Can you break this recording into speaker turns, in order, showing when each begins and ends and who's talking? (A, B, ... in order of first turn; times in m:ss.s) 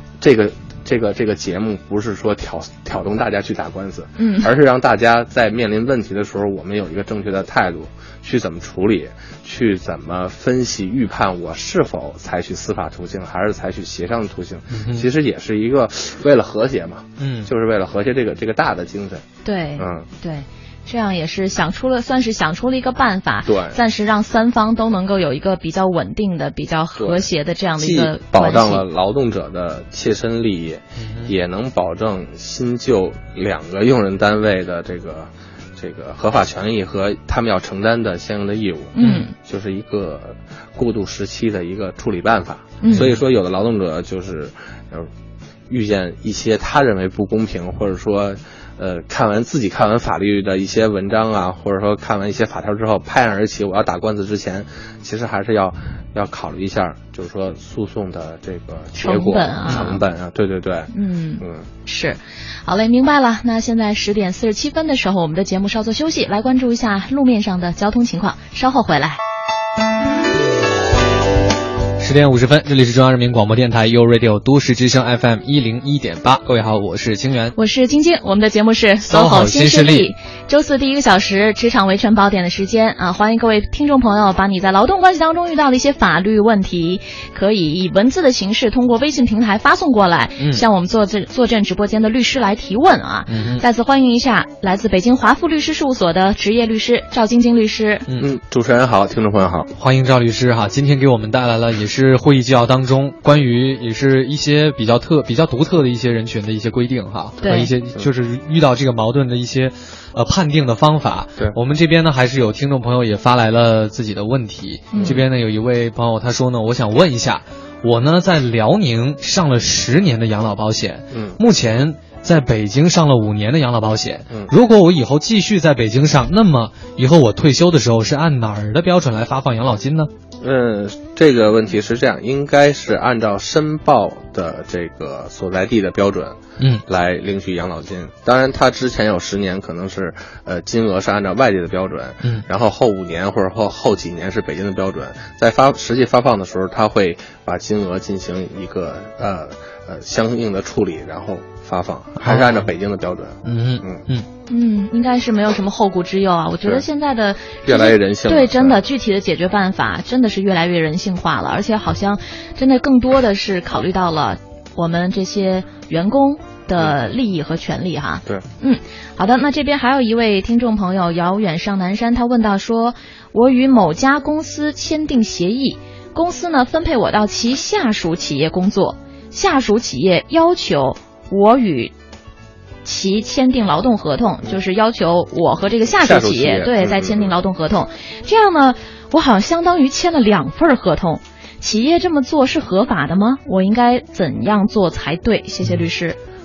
0:00.2-0:19.2 A
0:04.2-0:04.5 B
0:14.7-0:15.1 C
0:17.2-0:17.5 C
0:19.4-0:28.8 B
0:19.8-0:20.1 A
0:23.5-0:23.8 A
0:27.0-0:45.1 A
0:31.0-0:31.3 C
0:39.0-0:39.3 B
0:39.0-0:39.3 C
0:42.8-0:43.1 B
0:42.9-0:43.2 C
0:45.7-1:01.7 A
0:59.0-1:00.0 B
1:00.9-1:09.2 B
1:12.0-1:17.6 C
1:17.6-1:38.0 B
1:19.1-1:20.1 C
1:33.3-1:33.6 C
1:38.2-1:39.7 A
1:39.8-2:10.1 C
1:47.4-1:47.7 B
1:54.9-1:55.2 B
1:55.0-1:55.2 A
2:01.1-2:01.4 A
2:10.4-2:34.0 A
2:16.6-2:16.8 C
2:32.2-2:32.7 C
2:33.4-2:34.3 C
2:34.5-3:01.9 B
2:37.6-2:38.8 A
3:02.8-3:16.2 B
3:06.0-3:07.3 A